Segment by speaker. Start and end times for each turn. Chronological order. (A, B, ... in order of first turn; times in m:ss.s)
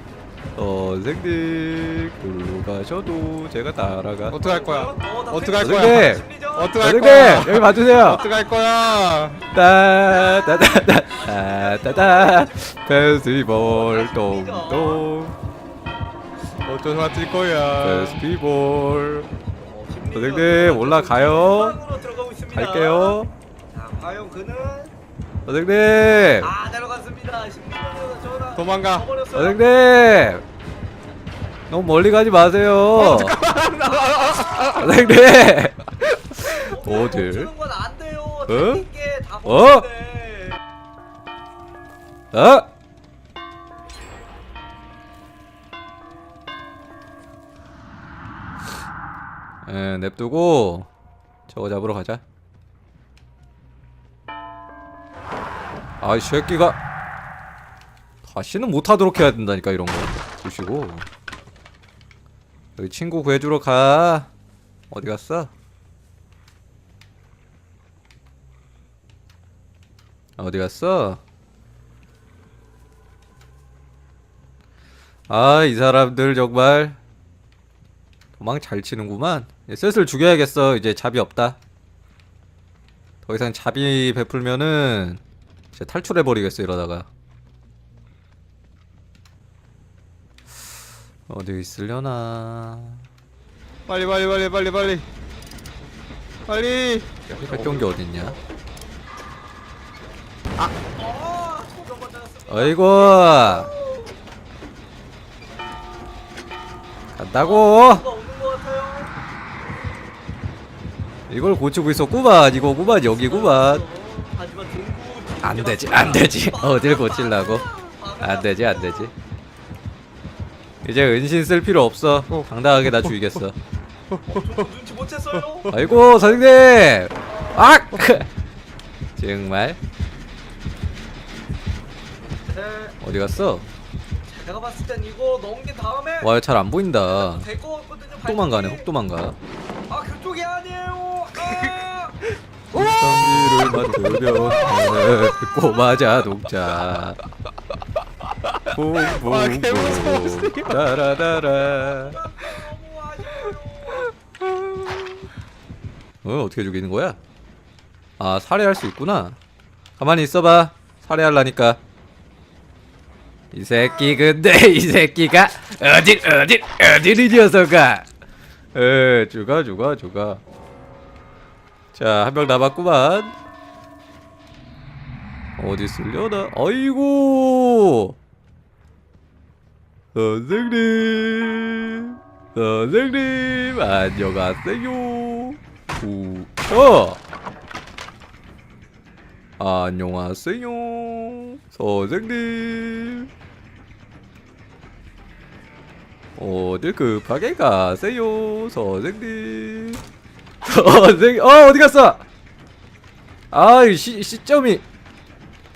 0:00.6-0:04.4 A
0:04.3-0:09.5 B
0:04.3-0:06.9 C
0:05.6-0:06.3 A
0:06.8-0:08.3 A
0:09.5-0:15.4 A
0:10.1-0:15.0 C
0:16.6-0:18.2 B
0:17.8-0:19.3 A
0:19.6-0:23.2 C
0:20.1-0:21.8 A
0:22.5-0:23.3 A
0:23.7-0:24.9 C
0:25.5-0:26.5 A
0:26.4-0:29.8 C
0:28.6-0:29.1 B
0:29.3-0:30.4 A
0:31.7-0:33.4 A
0:33.0-0:35.0 B
0:33.5-0:35.1 C
0:34.7-0:37.5 A
0:36.4-0:40.6 C
0:38.5-0:38.9 A
0:39.4-0:39.9 A
0:42.3-0:42.7 A
0:49.6-0:50.9 A
0:51.5-0:52.2 A
0:56.0-0:56.8 A
0:58.2-1:01.0 A
1:02.8-1:04.3 A
1:04.9-1:05.5 A
1:10.4-1:11.2 A
1:15.3-1:17.0 A
1:18.4-1:21.6 A
1:23.2-1:25.2 A
1:25.7-1:27.1 A
1:31.3-1:33.1 A
1:33.9-1:35.1 B
1:36.5-1:37.9 B
1:37.3-1:38.4 A
1:40.7-1:44.1 C
1:42.5-1:43.7 A
1:47.2-1:48.1 A
1:47.4-1:49.1 C
1:51.3-1:53.9 A
1:52.8-1:59.1 C
1:55.4-1:59.1 A
2:00.8-2:03.6 A
2:02.3-2:03.1 B
2:04.1-2:04.6 B
2:04.3-2:06.4 C
2:05.7-2:08.3 A
2:09.2-2:09.8 A
2:12.4-2:12.9 C
2:13.0-2:13.7 A
2:14.3-2:16.3 C
2:16.2-2:17.5 A
2:17.0-2:18.9 C
2:18.2-2:19.4 A
2:19.9-2:22.8 C
2:22.7-2:27.2 A
2:24.3-2:25.8 C
2:28.7-2:32.2 A
2:29.1-2:30.9 B
2:31.0-2:34.2 C
2:34.4-2:35.1 A
2:36.2-2:37.2 A
2:38.2-2:39.4 A
2:40.0-2:41.8 A
2:43.5-2:48.1 A
2:48.7-2:50.4 A
2:51.9-2:53.4 A
2:55.6-2:58.2 A
3:00.1-3:07.2 A
3:09.6-3:13.3 A
3:16.4-3:20.0 A
3:20.6-3:22.2 A
3:23.5-3:24.8 A